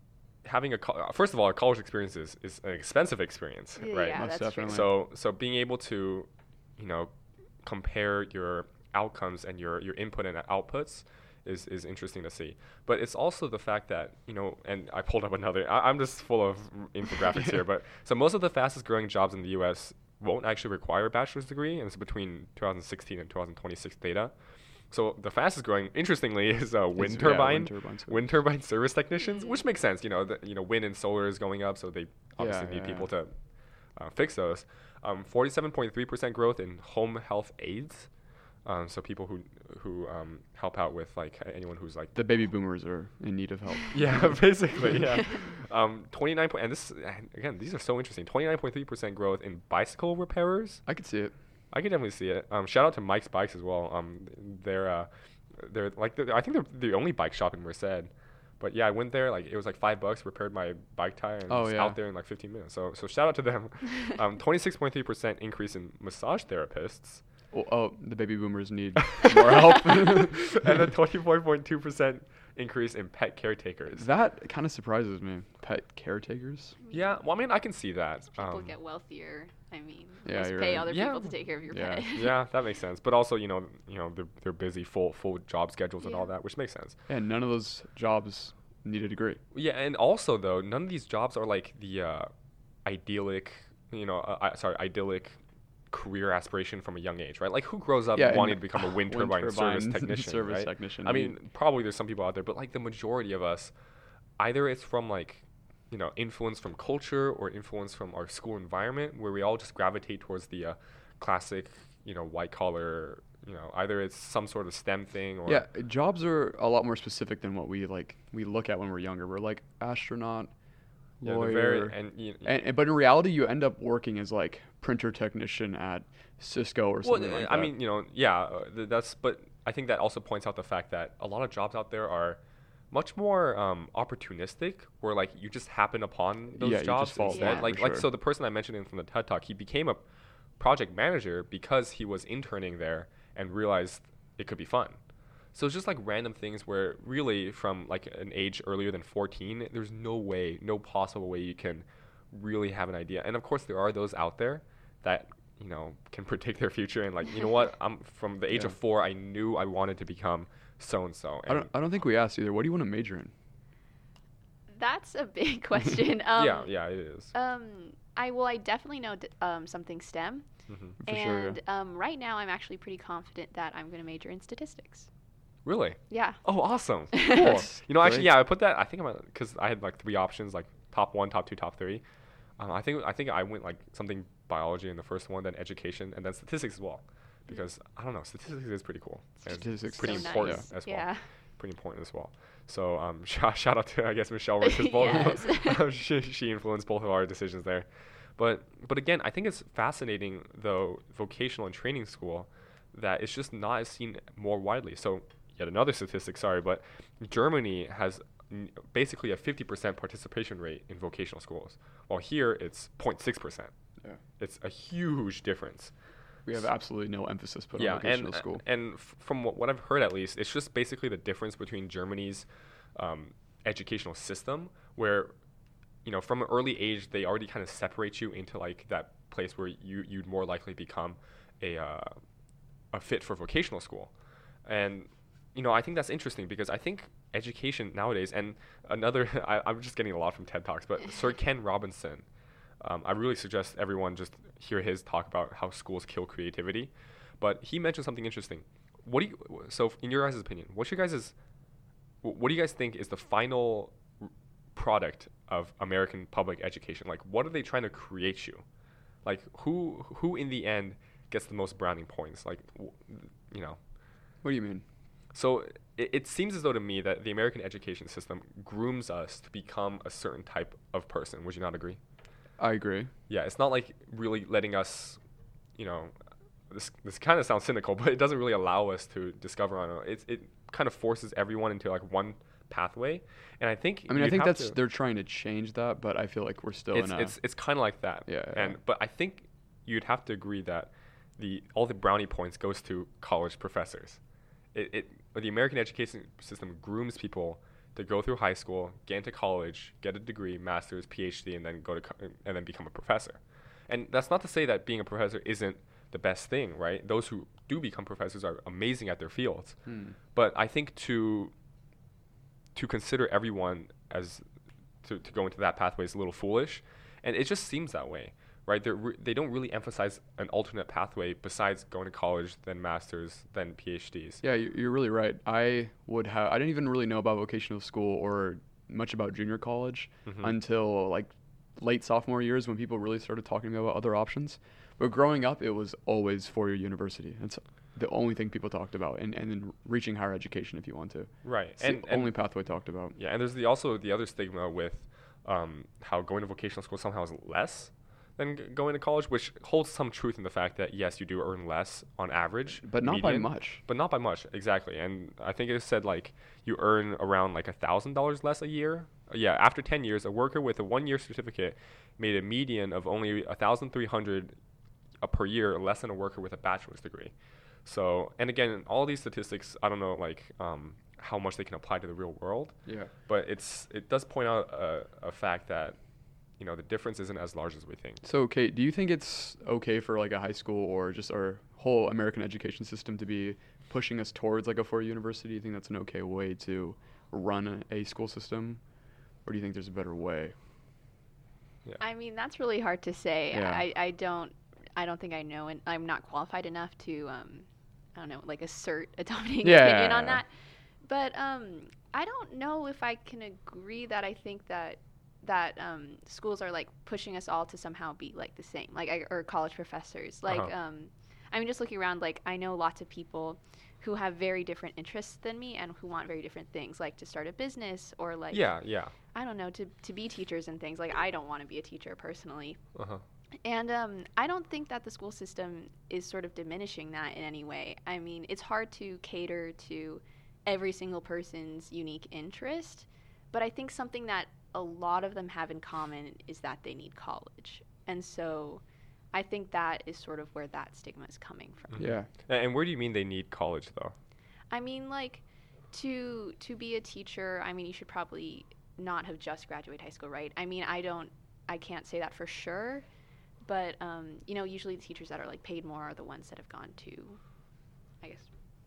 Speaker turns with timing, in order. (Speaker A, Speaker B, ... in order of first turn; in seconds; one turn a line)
Speaker A: 0.4-24.3
Speaker B: 3.8-4.9
Speaker C: 4.1-4.9
Speaker A: 24.9-33.3
Speaker C: 26.9-28.2
Speaker C: 32.4-33.1
Speaker A: 33.9-38.1
Speaker A: 38.6-42.1
Speaker C: 42.1-45.0
Speaker A: 43.9-50.8
Speaker C: 50.9-51.3
Speaker A: 51.7-67.2
Speaker C: 61.5-62.0
Speaker C: 67.5-70.9
Speaker A: 69.1-74.1
Speaker C: 73.9-76.8
Speaker B: 76.8-77.1
Speaker A: 76.9-78.7
Speaker B: 78.3-82.4
Speaker C: 80.2-80.9
Speaker A: 80.9-81.3
Speaker C: 81.7-82.0
Speaker A: 82.1-87.0
Speaker B: 86.0-86.3
Speaker C: 87.1-89.4
Speaker A: 89.5-92.3
Speaker A: 92.8-95.4
Speaker A: 95.9-103.7
Speaker C: 98.1-101.3
Speaker A: 104.4-115.6
Speaker C: 115.5-120.5
Speaker C: 121.2-127.7
Speaker A: 121.2-122.5
Speaker A: 127.0-132.4
Speaker A: 132.9-140.0
Speaker C: 136.5-138.1
Speaker B: 137.2-137.6
Speaker A: 140.6-145.0
Speaker A: 145.5-161.7
Speaker C: 161.5-163.3
Speaker B: 164.7-166.7
Speaker A: 166.3-167.3
Speaker B: 167.3-170.5
Speaker A: 170.7-170.9
Speaker C: 171.0-171.6
Speaker B: 171.0-175.1
Speaker A: 175.6-182.0
Speaker B: 176.1-176.4
Speaker B: 177.1-177.5
Speaker C: 177.3-178.3
Speaker A: 182.6-213.7
Speaker C: 189.5-190.7
Speaker B: 189.8-191.2
Speaker B: 194.6-195.8
Speaker A: 214.4-215.9
Speaker C: 216.4-218.6
Speaker A: 217.8-225.3
Speaker A: 226.0-232.2
Speaker A: 232.9-234.1
Speaker A: 234.6-242.2
Speaker A: 242.8-251.3
Speaker A: 252.2-258.6
Speaker A: 259.2-263.8
Speaker C: 264.4-264.8
Speaker A: 265.3-272.0
Speaker C: 272.6-273.1
Speaker A: 273.3-275.2
Speaker A: 275.8-276.1
Speaker A: 276.7-284.8
Speaker C: 284.1-287.4
Speaker A: 286.9-294.2
Speaker C: 288.2-288.8
Speaker A: 294.7-311.5
Speaker C: 309.9-310.1
Speaker A: 312.7-314.4
Speaker A: 315.0-324.4
Speaker C: 324.4-343.1
Speaker A: 330.2-330.5
Speaker A: 341.4-342.5
Speaker A: 343.1-364.5
Speaker C: 352.8-353.8
Speaker A: 365.2-376.0
Speaker C: 372.9-373.1
Speaker A: 376.6-378.2
Speaker C: 378.2-388.8
Speaker C: 389.4-390.5
Speaker B: 392.0-422.8
Speaker C: 393.5-393.8
Speaker C: 399.6-400.4
Speaker A: 410.5-410.7
Speaker A: 418.5-419.1
Speaker A: 422.9-423.2
Speaker B: 423.6-438.8
Speaker B: 439.3-442.1
Speaker A: 441.9-444.1
Speaker C: 442.0-442.3
Speaker B: 444.7-453.0
Speaker B: 453.6-457.4
Speaker B: 458.2-458.5